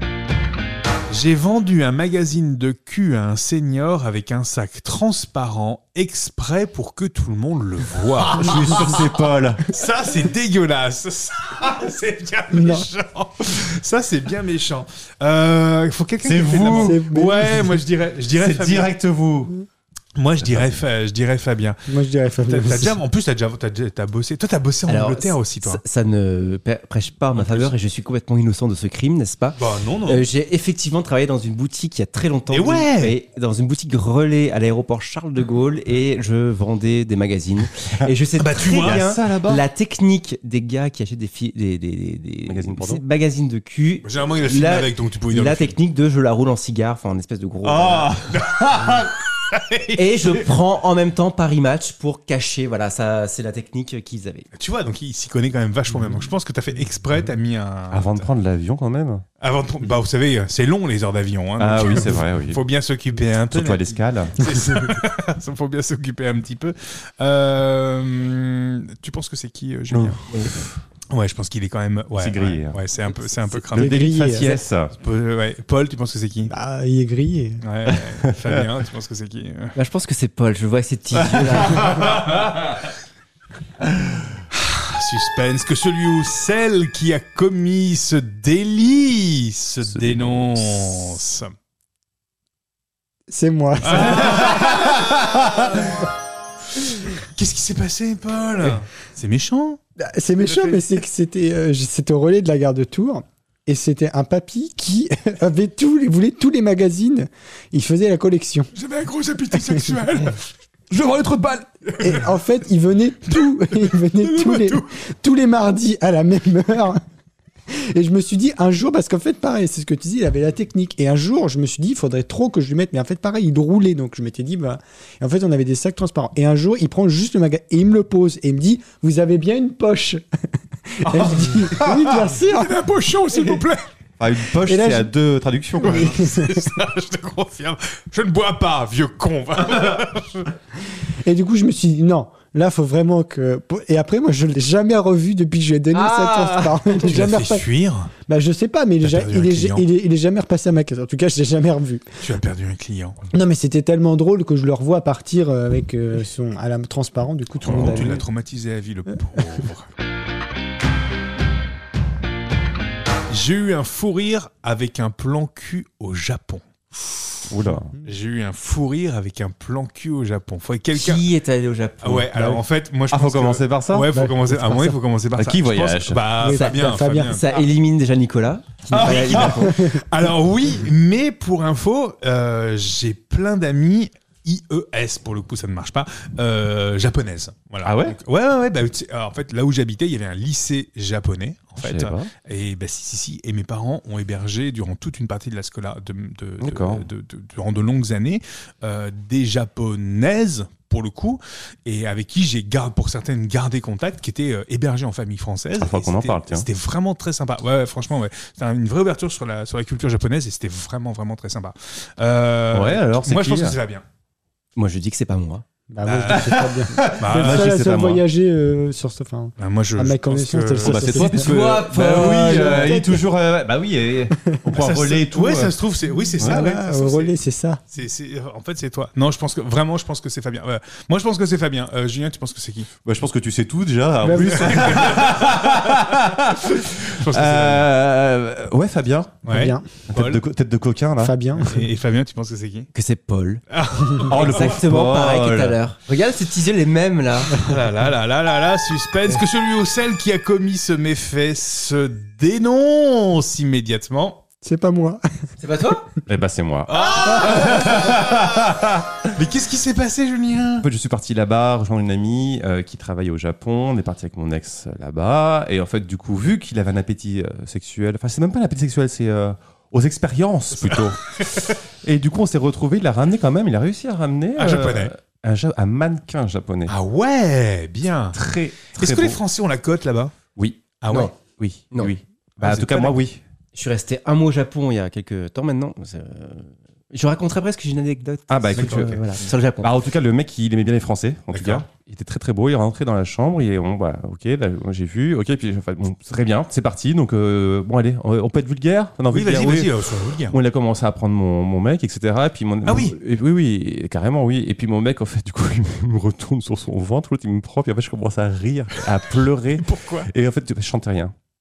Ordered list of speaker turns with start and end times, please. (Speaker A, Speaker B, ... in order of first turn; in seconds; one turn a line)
Speaker A: 1.1-9.1
Speaker B: 8.2-9.7
Speaker A: 9.7-18.9
Speaker C: 12.5-12.9
Speaker B: 16.2-17.0
Speaker C: 16.7-17.7
Speaker B: 18.3-19.5
Speaker A: 20.2-21.8
Speaker C: 21.9-23.0
Speaker A: 22.5-25.8
Speaker D: 24.9-48.2
Speaker A: 27.4-27.7
Speaker A: 29.6-30.2
Speaker A: 32.5-33.1
Speaker A: 38.4-39.0
Speaker B: 38.6-39.6
Speaker B: 42.5-43.0
Speaker A: 44.0-45.8
Speaker B: 47.7-49.1
Speaker A: 48.3-50.5
Speaker D: 50.0-54.5
Speaker A: 54.6-58.3
Speaker B: 57.9-59.2
Speaker A: 59.4-70.2
Speaker B: 61.6-62.6
Speaker B: 63.5-64.5
Speaker B: 69.9-70.8
Speaker A: 71.1-74.0
Speaker B: 72.2-72.8
Speaker D: 73.1-73.6
Speaker B: 73.7-74.9
Speaker C: 73.8-74.5
Speaker A: 75.0-76.5
Speaker C: 76.5-77.6
Speaker A: 77.6-79.8
Speaker D: 79.8-82.0
Speaker B: 81.3-82.0
Speaker A: 81.8-82.5
Speaker A: 84.5-91.5
Speaker B: 89.9-90.9
Speaker C: 93.3-94.8
Speaker A: 93.8-95.6
Speaker B: 94.3-95.4
Speaker A: 97.2-99.8
Speaker C: 100.0-108.7
Speaker A: 100.5-100.8
Speaker A: 108.7-112.3
Speaker C: 109.5-109.9
Speaker C: 112.0-117.0
Speaker A: 114.2-114.9
Speaker C: 117.7-130.2
Speaker C: 131.0-132.8
Speaker A: 131.1-131.7
Speaker A: 132.5-133.8
Speaker C: 133.3-133.6
Speaker B: 134.2-136.2
Speaker C: 134.7-135.1
Speaker A: 135.8-140.5
Speaker C: 135.8-136.7
Speaker C: 141.2-147.7
Speaker D: 146.0-146.7
Speaker A: 146.1-148.1
Speaker C: 148.3-152.1
Speaker A: 149.0-149.9
Speaker A: 152.2-153.2
Speaker C: 153.3-158.2
Speaker B: 157.6-158.2
Speaker A: 157.6-159.9
Speaker A: 163.3-171.2
Speaker B: 167.5-167.9
Speaker D: 170.9-172.6
Speaker A: 172.0-177.7
Speaker B: 173.1-174.1
Speaker C: 174.1-175.0
Speaker B: 175.4-176.3
Speaker C: 176.4-177.4
Speaker D: 176.4-179.8
Speaker A: 178.9-214.0
Speaker C: 178.9-180.0
Speaker B: 187.8-188.2
Speaker B: 191.8-192.3
Speaker B: 196.6-197.1
Speaker B: 205.8-206.7
Speaker B: 212.7-213.8
Speaker D: 214.8-215.6
Speaker C: 215.9-223.2
Speaker A: 216.0-217.8
Speaker B: 216.3-218.2
Speaker A: 219.6-221.3
Speaker B: 220.8-225.7
Speaker D: 221.2-223.0
Speaker A: 224.7-227.3
Speaker C: 226.4-227.8
Speaker A: 227.9-232.9
Speaker B: 233.1-239.5
Speaker C: 234.2-235.2
Speaker A: 234.5-236.0
Speaker A: 236.8-237.9
Speaker A: 239.4-240.4
Speaker C: 239.5-239.8
Speaker B: 240.1-241.4
Speaker C: 241.2-241.8
Speaker A: 241.6-242.9
Speaker D: 242.9-247.7
Speaker A: 243.7-244.7
Speaker B: 244.3-245.8
Speaker A: 247.5-254.4
Speaker C: 254.6-255.2
Speaker D: 255.6-256.1
Speaker B: 256.3-259.2
Speaker A: 256.9-258.4
Speaker A: 259.3-260.9
Speaker B: 260.8-276.9
Speaker A: 270.8-271.8
Speaker A: 274.6-275.1
Speaker A: 276.9-278.4
Speaker B: 278.3-279.4
Speaker A: 278.9-280.4
Speaker B: 280.6-283.4
Speaker A: 281.0-281.3
Speaker A: 282.6-283.0
Speaker D: 282.7-283.1
Speaker D: 283.7-289.9
Speaker B: 288.5-289.2
Speaker A: 288.8-289.2
Speaker B: 289.8-299.9
Speaker A: 291.5-291.9
Speaker A: 299.3-300.6
Speaker B: 300.5-311.3
Speaker A: 302.9-303.2
Speaker A: 309.8-310.3